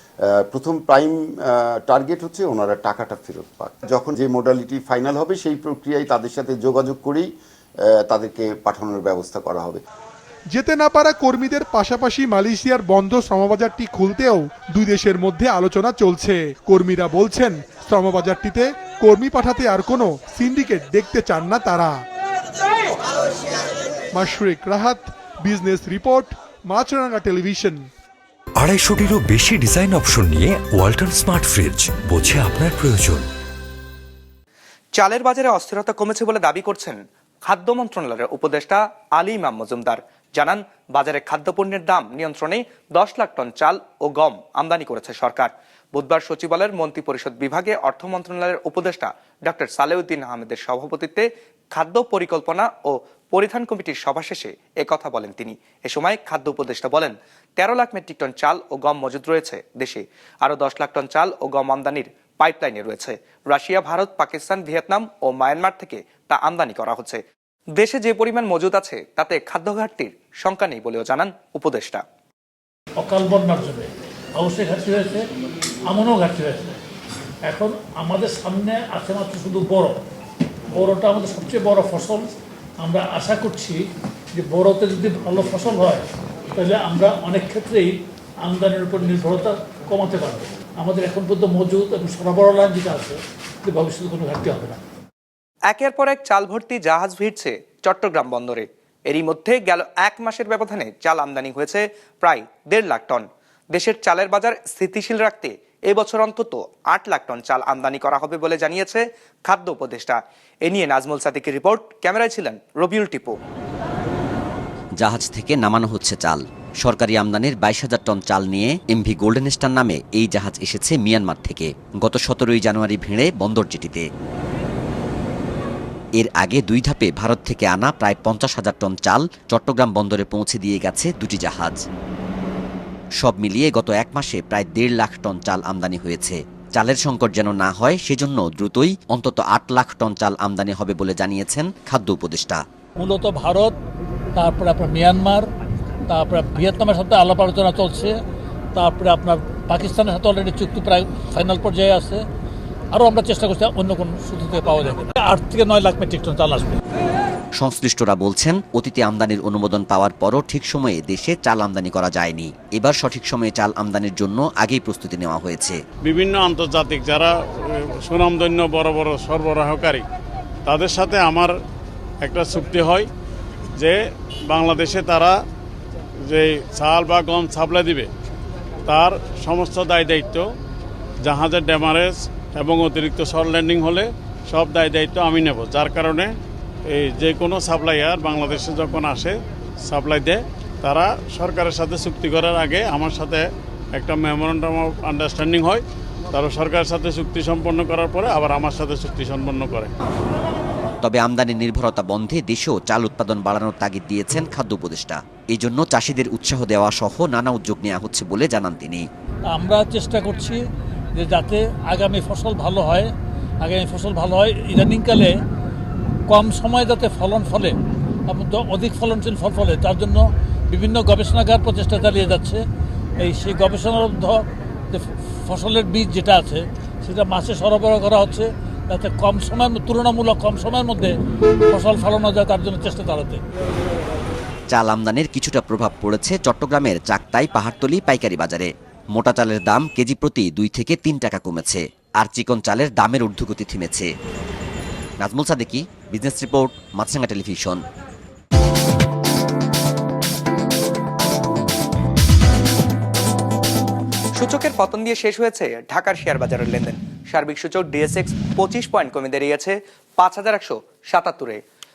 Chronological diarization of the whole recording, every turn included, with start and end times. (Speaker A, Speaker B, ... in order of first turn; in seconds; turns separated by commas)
Speaker A: 0.3-7.3, Speaker A: 8.0-9.8, Speaker B: 10.5-21.9, Speaker B: 24.1-27.9, Speaker C: 28.6-33.2, Speaker D: 35.0-67.2, Speaker D: 67.8-72.0, Speaker E: 73.0-75.3, Speaker E: 75.9-76.8, Speaker E: 77.5-80.0, Speaker E: 80.7-94.8, Speaker D: 95.7-113.4, Speaker F: 115.0-124.0, Speaker F: 126.2-131.8, Speaker F: 133.2-142.6, Speaker E: 143.0-143.8, Speaker E: 144.3-145.5, Speaker E: 146.1-148.2, Speaker E: 148.7-152.2, Speaker E: 152.9-156.8, Speaker F: 157.6-165.8, Speaker G: 166.1-167.3, Speaker G: 168.1-170.0, Speaker G: 170.7-171.5, Speaker G: 172.2-173.1, Speaker G: 174.5-175.3, Speaker G: 176.3-178.1, Speaker G: 178.9-180.4, Speaker G: 181.3-186.3, Speaker G: 186.9-189.3, Speaker G: 189.9-193.4, Speaker G: 194.0-195.8, Speaker G: 196.3-199.9, Speaker F: 201.0-209.1, Speaker E: 209.5-210.6, Speaker E: 211.2-215.4, Speaker E: 216.3-222.7, Speaker E: 223.2-231.1, Speaker E: 231.7-233.4, Speaker F: 234.7-244.1, Speaker F: 245.2-247.8, Speaker D: 254.4-261.6